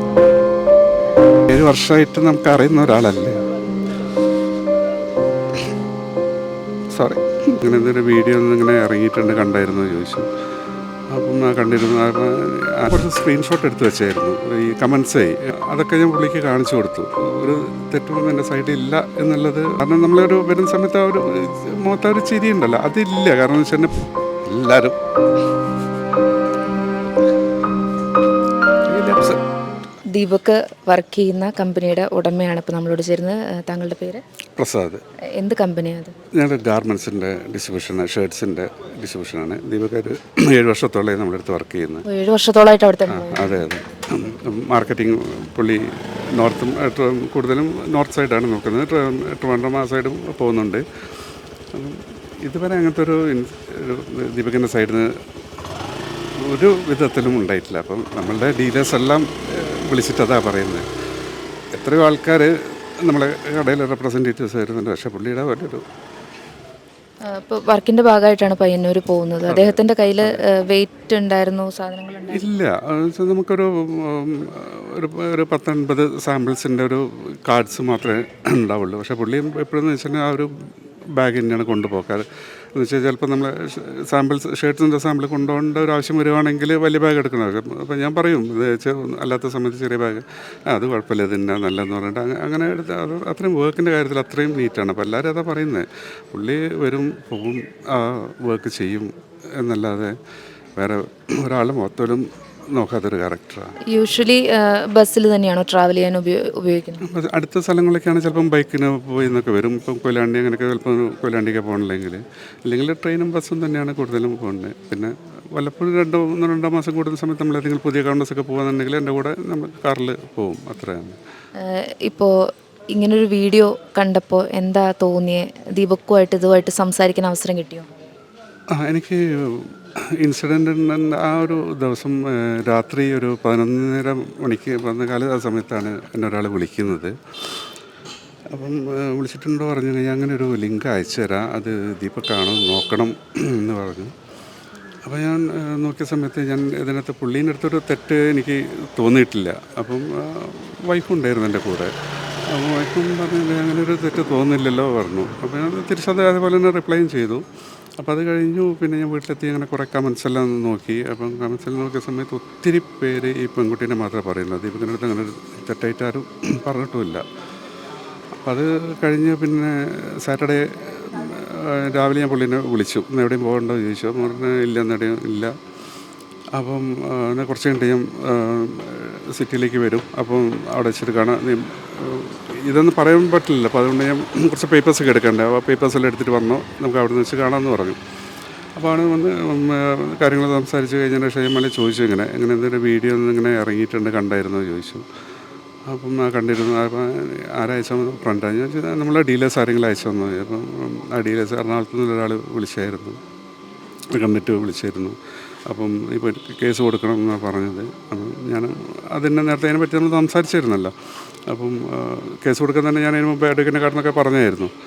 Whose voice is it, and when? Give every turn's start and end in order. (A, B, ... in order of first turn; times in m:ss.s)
0:01.5-0:03.4 A
0:06.9-0:10.3 A
0:11.1-0:25.0 A
0:28.9-0:29.4 A
0:30.1-0:34.2 B
0:34.6-0:35.0 A
0:35.4-0:36.1 B
0:36.3-0:42.0 A
0:42.1-0:43.6 B
0:43.1-0:50.8 A
0:51.7-0:55.1 A
0:56.4-1:00.9 A
1:01.7-1:05.8 A
1:07.3-1:12.5 B
1:09.5-1:10.4 A
1:12.3-1:20.5 A
1:21.2-1:40.2 A
1:40.8-1:43.8 A
1:43.9-1:47.0 B
1:47.1-2:01.2 A
2:01.6-2:02.3 B
2:02.9-2:07.9 B
2:08.7-2:17.2 A
2:18.5-2:24.1 A
2:25.1-2:31.9 A
2:32.4-2:37.4 A
2:38.0-2:47.2 A
2:48.4-2:55.6 A
2:56.6-3:08.0 A
3:08.8-3:15.0 A
3:15.9-3:23.2 A
3:24.1-3:30.9 A
3:31.5-3:34.7 A